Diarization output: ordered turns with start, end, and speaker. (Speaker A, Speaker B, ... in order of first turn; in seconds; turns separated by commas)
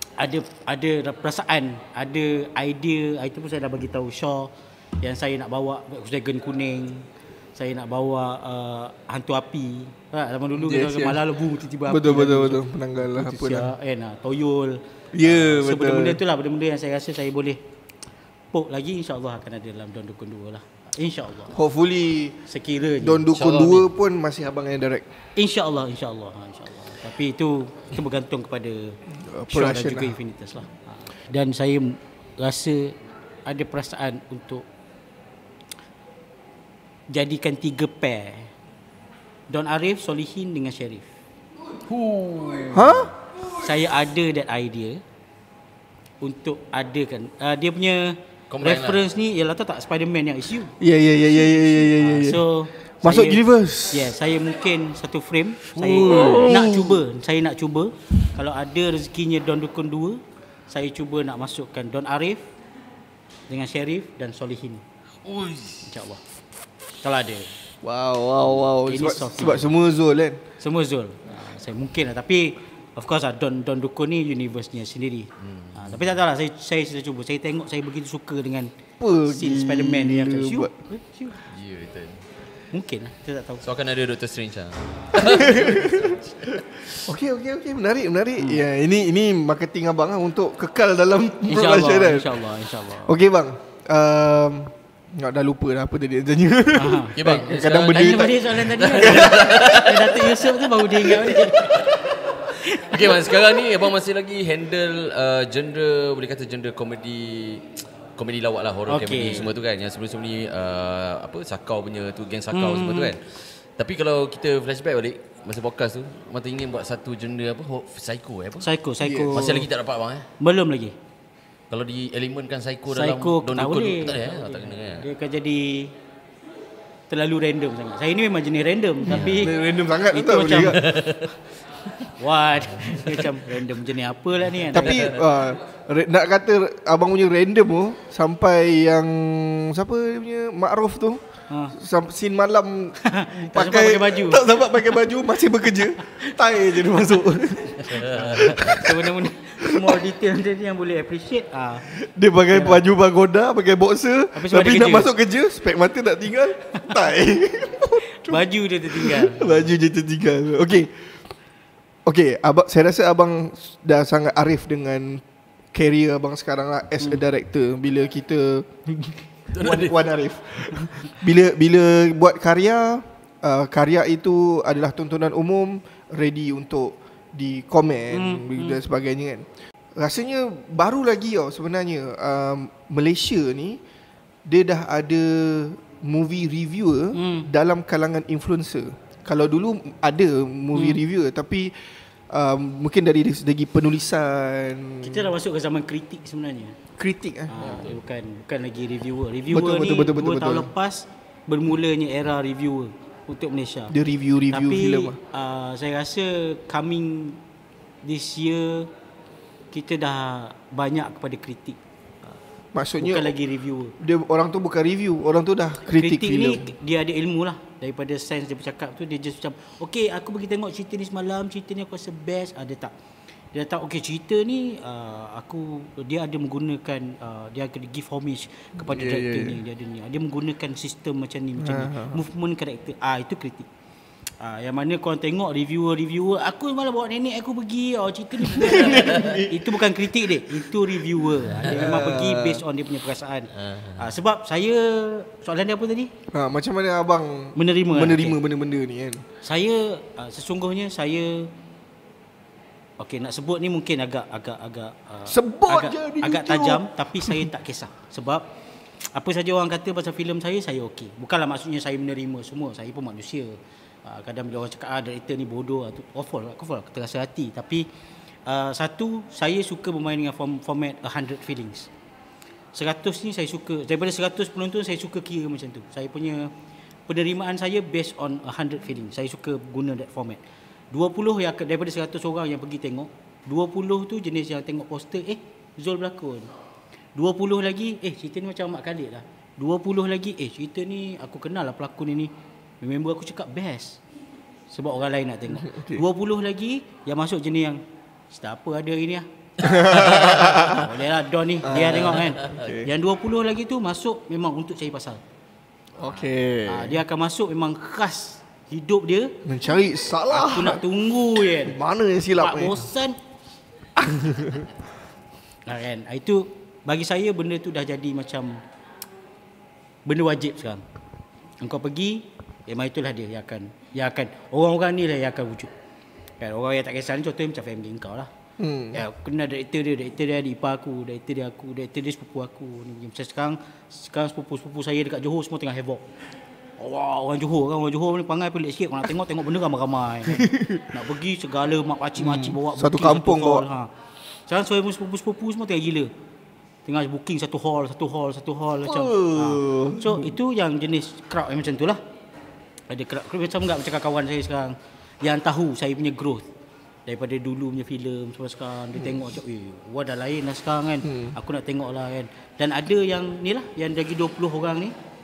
Speaker A: 0.2-17.6, Speaker B: 10.6-11.2, Speaker B: 11.9-13.7, Speaker B: 15.1-16.2, Speaker A: 18.5-21.6, Speaker B: 21.5-22.4, Speaker A: 22.5-23.3, Speaker B: 23.0-25.1, Speaker C: 23.3-23.9, Speaker A: 25.4-29.0, Speaker B: 29.1-30.1, Speaker A: 29.5-34.6, Speaker A: 37.1-38.5, Speaker A: 39.5-41.1, Speaker C: 41.9-43.1, Speaker B: 42.7-43.1, Speaker A: 43.5-45.0, Speaker A: 46.2-50.8, Speaker C: 48.5-49.0, Speaker B: 50.8-52.5, Speaker A: 51.5-62.5, Speaker B: 53.0-54.2, Speaker C: 55.8-56.5, Speaker B: 55.8-57.0, Speaker A: 63.5-64.8, Speaker C: 65.2-65.9, Speaker A: 65.9-66.2, Speaker A: 67.0-67.5, Speaker B: 67.8-70.4, Speaker A: 68.8-69.7, Speaker A: 70.6-78.7, Speaker C: 75.4-76.1, Speaker B: 79.0-80.7, Speaker A: 79.3-81.5, Speaker C: 81.5-82.2, Speaker A: 82.7-83.6, Speaker C: 83.6-87.0, Speaker B: 85.2-92.4, Speaker A: 91.5-93.2, Speaker B: 92.9-99.4, Speaker A: 96.7-101.9, Speaker C: 97.2-102.0, Speaker A: 102.5-103.2, Speaker C: 102.8-118.7, Speaker A: 108.9-109.5, Speaker A: 112.5-113.1, Speaker A: 118.6-119.5, Speaker B: 119.0-119.7, Speaker C: 119.3-120.3, Speaker A: 120.4-121.0, Speaker C: 121.7-125.1, Speaker A: 122.9-126.0, Speaker A: 127.1-130.8, Speaker C: 129.1-129.4, Speaker B: 129.1-130.8, Speaker C: 130.6-131.3, Speaker A: 132.2-135.1, Speaker C: 132.7-133.3, Speaker B: 134.7-141.2, Speaker C: 134.8-135.2, Speaker A: 141.5-141.8, Speaker B: 141.7-150.0, Speaker A: 143.0-144.6, Speaker C: 147.9-148.4, Speaker A: 148.1-151.9, Speaker B: 151.9-160.9, Speaker A: 152.5-152.8, Speaker A: 154.3-155.1, Speaker A: 158.1-159.7, Speaker B: 162.1-179.5, Speaker C: 169.5-170.1, Speaker A: 178.1-178.8, Speaker B: 180.0-183.8, Speaker B: 184.4-191.8, Speaker A: 187.1-187.5, Speaker A: 190.7-191.0, Speaker B: 192.3-195.3, Speaker A: 195.0-196.8, Speaker B: 197.0-197.8, Speaker A: 197.5-203.9, Speaker B: 199.5-200.7, Speaker B: 203.9-205.2, Speaker A: 204.5-207.4, Speaker A: 208.0-208.9, Speaker A: 209.7-211.8, Speaker B: 212.7-213.3, Speaker A: 213.0-213.9, Speaker B: 214.0-216.7, Speaker A: 215.9-222.9, Speaker A: 223.5-233.7, Speaker B: 228.8-229.6, Speaker B: 231.6-232.2, Speaker A: 234.4-246.1, Speaker B: 238.4-240.0, Speaker C: 238.9-239.4, Speaker B: 241.6-242.6, Speaker C: 243.6-244.0, Speaker B: 246.3-249.2, Speaker A: 247.6-248.4, Speaker A: 249.4-251.5, Speaker A: 253.0-258.5, Speaker B: 255.3-257.5, Speaker A: 259.1-267.9, Speaker A: 268.5-271.9, Speaker A: 272.7-276.5, Speaker A: 277.1-280.4, Speaker A: 280.9-286.5, Speaker A: 287.1-294.0, Speaker A: 294.7-297.8, Speaker B: 295.6-296.0, Speaker A: 298.3-299.3, Speaker B: 299.6-300.9, Speaker C: 299.7-300.8, Speaker A: 299.9-305.2, Speaker B: 301.6-302.9, Speaker C: 302.2-302.7, Speaker B: 306.0-307.0, Speaker A: 306.7-309.4, Speaker B: 309.4-310.8, Speaker A: 310.3-311.8, Speaker B: 311.6-312.9, Speaker A: 312.4-313.2, Speaker B: 314.0-314.7, Speaker A: 315.7-318.6, Speaker A: 320.1-320.8, Speaker A: 321.6-325.7, Speaker A: 326.4-328.3, Speaker B: 328.6-329.0, Speaker A: 328.9-336.1, Speaker A: 336.8-343.9, Speaker B: 340.3-340.9, Speaker B: 342.2-343.7, Speaker A: 344.5-346.1, Speaker A: 346.9-352.0, Speaker B: 348.9-350.3, Speaker A: 352.9-356.5, Speaker A: 357.1-364.9, Speaker B: 361.0-361.4